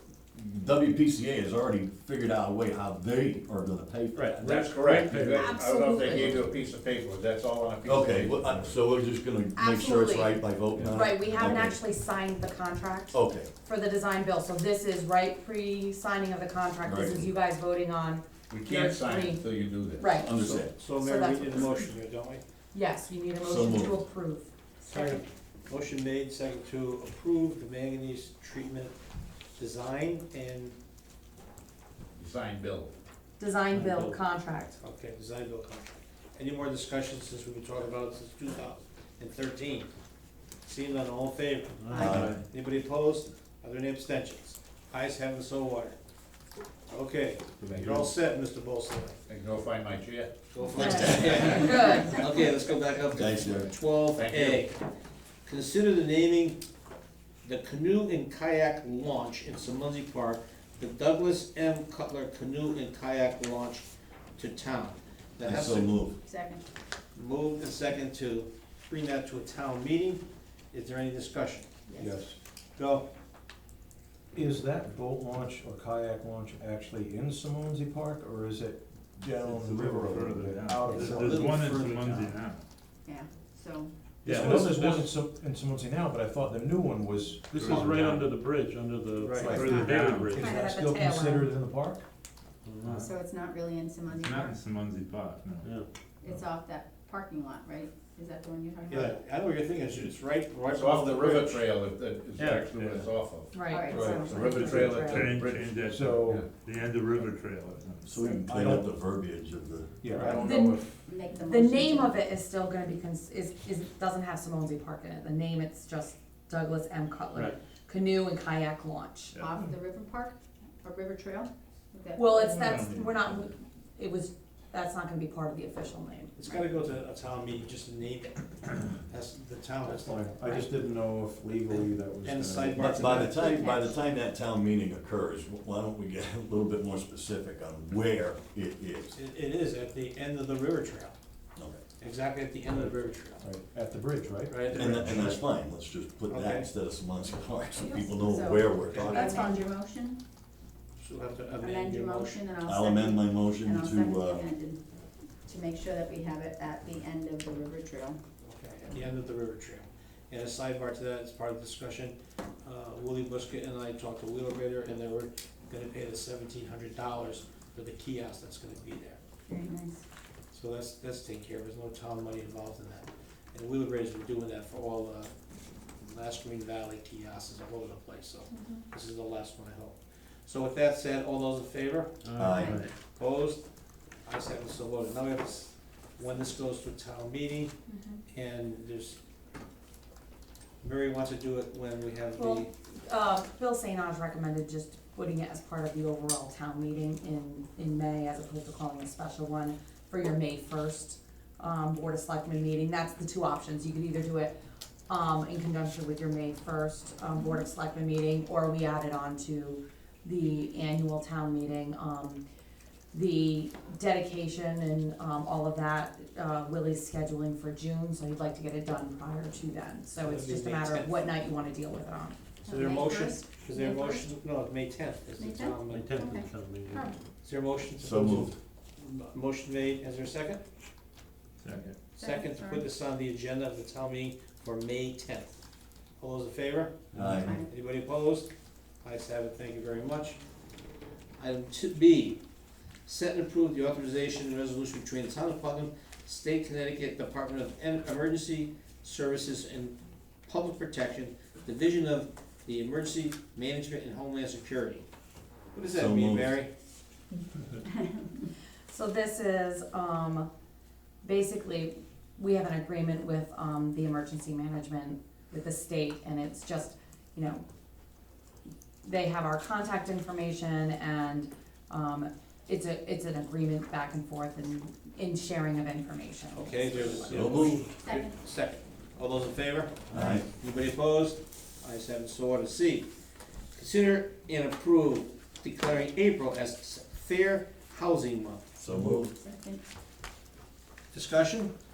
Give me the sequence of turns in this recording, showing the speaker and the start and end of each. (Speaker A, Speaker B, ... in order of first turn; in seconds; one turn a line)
Speaker A: 0.3-4.4
Speaker B: 4.2-8.7
Speaker C: 5.0-5.4
Speaker D: 5.3-6.4
Speaker A: 7.8-11.8
Speaker D: 9.6-10.3
Speaker B: 10.8-11.4
Speaker D: 10.9-19.4
Speaker A: 13.1-13.5
Speaker A: 16.8-17.3
Speaker B: 18.5-20.1
Speaker D: 19.9-20.3
Speaker A: 20.1-20.9
Speaker E: 20.4-22.4
Speaker D: 20.9-21.9
Speaker D: 22.7-25.2
Speaker A: 23.4-24.0
Speaker E: 24.9-28.9
Speaker E: 29.6-30.8
Speaker B: 32.2-32.9
Speaker D: 33.4-34.8
Speaker C: 33.8-34.1
Speaker E: 34.8-39.9
Speaker E: 40.6-46.0
Speaker C: 41.9-42.4
Speaker A: 41.9-42.4
Speaker F: 42.0-42.4
Speaker E: 46.9-49.2
Speaker B: 47.7-48.1
Speaker B: 49.3-50.3
Speaker E: 50.5-54.8
Speaker D: 50.7-52.2
Speaker A: 50.8-51.5
Speaker A: 53.1-53.7
Speaker B: 54.1-54.7
Speaker E: 55.5-56.6
Speaker E: 57.4-65.9
Speaker A: 65.4-66.2
Speaker G: 66.2-66.6
Speaker E: 67.2-71.7
Speaker G: 71.9-72.2
Speaker H: 72.0-72.3
Speaker E: 72.8-73.1
Speaker H: 74.3-81.6
Speaker F: 79.4-82.6
Speaker E: 81.1-82.3
Speaker G: 83.0-83.9
Speaker C: 84.2-85.0
Speaker H: 84.2-87.5
Speaker F: 87.5-88.3
Speaker C: 87.5-90.4
Speaker E: 89.2-89.7
Speaker H: 89.3-92.0
Speaker F: 89.4-90.4
Speaker D: 89.6-91.5
Speaker C: 92.7-93.0
Speaker F: 92.8-93.1
Speaker G: 93.0-94.5
Speaker F: 94.1-95.7
Speaker G: 96.2-99.2
Speaker E: 98.9-101.7
Speaker B: 100.7-103.6
Speaker C: 102.4-102.6
Speaker F: 102.5-103.2
Speaker D: 103.5-105.2
Speaker G: 103.6-104.5
Speaker H: 103.9-104.4
Speaker B: 104.1-105.7
Speaker F: 105.0-108.1
Speaker H: 105.8-106.4
Speaker A: 108.1-110.0
Speaker H: 108.5-108.8
Speaker H: 110.0-110.4
Speaker F: 110.1-110.9
Speaker D: 110.4-110.9
Speaker G: 111.0-112.3
Speaker D: 111.4-119.4
Speaker G: 119.3-122.9
Speaker D: 122.2-126.3
Speaker F: 122.5-123.4
Speaker E: 126.3-130.3
Speaker H: 129.8-133.2
Speaker E: 131.7-133.4
Speaker A: 132.8-139.2
Speaker G: 133.2-133.9
Speaker E: 139.1-141.1
Speaker E: 142.0-143.4
Speaker H: 143.4-145.4
Speaker E: 144.5-145.4
Speaker A: 144.7-149.4
Speaker E: 146.3-146.7
Speaker G: 148.0-150.2
Speaker E: 148.9-149.2
Speaker D: 149.1-149.6
Speaker E: 151.0-152.4
Speaker G: 151.6-154.8
Speaker A: 152.6-154.5
Speaker G: 155.4-158.2
Speaker E: 158.4-169.2
Speaker G: 169.5-170.0
Speaker E: 170.5-175.3
Speaker E: 176.0-183.6
Speaker D: 178.5-178.8
Speaker A: 182.3-182.8
Speaker C: 182.3-182.8
Speaker E: 184.2-187.7
Speaker D: 187.9-188.2
Speaker E: 188.3-189.2
Speaker E: 190.8-192.7
Speaker D: 192.4-204.5
Speaker D: 205.1-212.4
Speaker D: 213.1-222.4
Speaker E: 220.2-221.1
Speaker G: 222.6-224.2
Speaker E: 222.7-226.2
Speaker G: 225.4-227.1
Speaker C: 225.9-227.0
Speaker E: 227.4-230.6
Speaker A: 228.0-228.5
Speaker F: 231.6-232.0
Speaker G: 232.1-232.8
Speaker E: 232.2-235.5
Speaker E: 236.2-237.1
Speaker A: 237.1-237.6
Speaker G: 237.3-237.7
Speaker E: 237.7-238.5
Speaker E: 239.0-240.4
Speaker E: 241.4-242.4
Speaker E: 243.1-249.9
Speaker E: 250.5-255.0
Speaker E: 255.7-256.7
Speaker A: 255.9-256.6
Speaker G: 257.8-258.4
Speaker D: 258.9-260.5
Speaker D: 261.2-267.6
Speaker D: 269.0-277.8
Speaker E: 276.5-283.1
Speaker A: 277.3-277.8
Speaker G: 278.0-278.4
Speaker A: 280.1-280.4
Speaker E: 283.7-288.7
Speaker A: 288.8-289.4
Speaker G: 289.2-289.8
Speaker E: 291.1-291.7